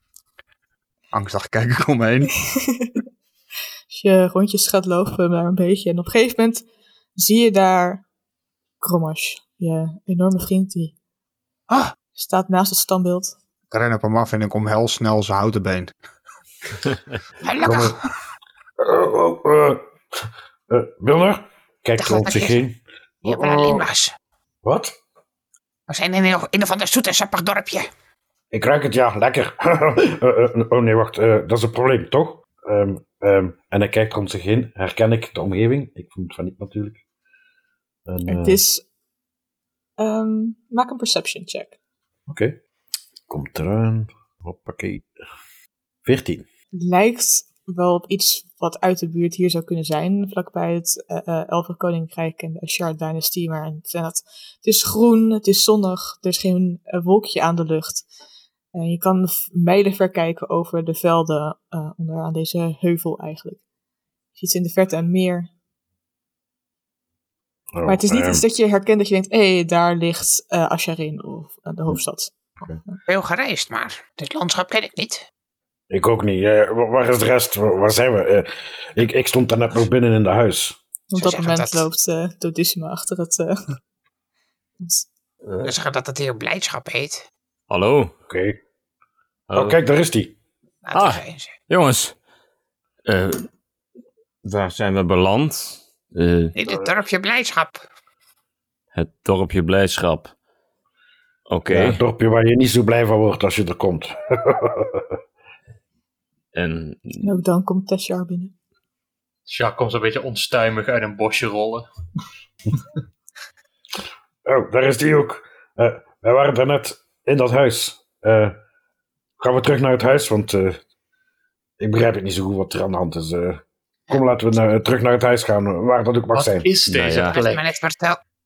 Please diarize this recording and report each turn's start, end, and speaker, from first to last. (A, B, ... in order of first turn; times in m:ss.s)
0:01.1-0:02.4 A
0:02.5-0:02.9 B
0:03.9-0:06.6 B
0:07.2-0:08.0 B
0:08.8-0:10.9 B
0:12.2-0:13.4 B
0:13.7-0:15.9 A
0:17.4-0:18.1 C
0:17.6-0:18.0 D
0:18.8-0:23.8 D
0:22.0-0:22.6 C
0:23.2-0:24.1 C
0:24.6-0:25.0 D
0:25.9-0:27.9 C
0:28.5-0:37.0 D
0:38.0-0:38.6 D
0:38.2-0:38.8 B
0:40.0-0:41.7 B
0:42.3-0:42.6 D
0:43.3-0:45.1 D
0:46.0-0:46.4 D
0:46.8-0:58.0 B
0:58.7-1:03.6 B
1:04.4-1:05.5 B
1:07.7-1:08.4 D
1:07.8-1:13.0 B
1:13.1-1:15.2 C
1:15.9-1:20.8 D
1:21.1-1:23.6 B
1:21.2-1:21.8 C
1:24.8-1:25.1 B
1:25.6-1:27.2 C
1:27.7-1:28.1 E
1:28.3-1:28.6 D
1:29.5-1:29.8 E
1:29.5-1:30.3 D
1:30.8-1:31.5 C
1:30.9-1:32.1 E
1:33.0-1:33.5 E
1:34.4-1:36.5 E
1:36.6-1:37.8 C
1:38.9-1:40.3 E
1:41.5-1:42.0 E
1:41.7-1:45.2 D
1:46.5-1:47.2 E
1:47.2-1:48.5 B
1:49.5-1:51.9 F
1:54.4-1:58.6 D
1:59.4-2:00.8 D
2:01.8-2:07.0 D
2:06.3-2:07.6 F
2:06.9-2:07.4 E
2:07.3-2:08.2 C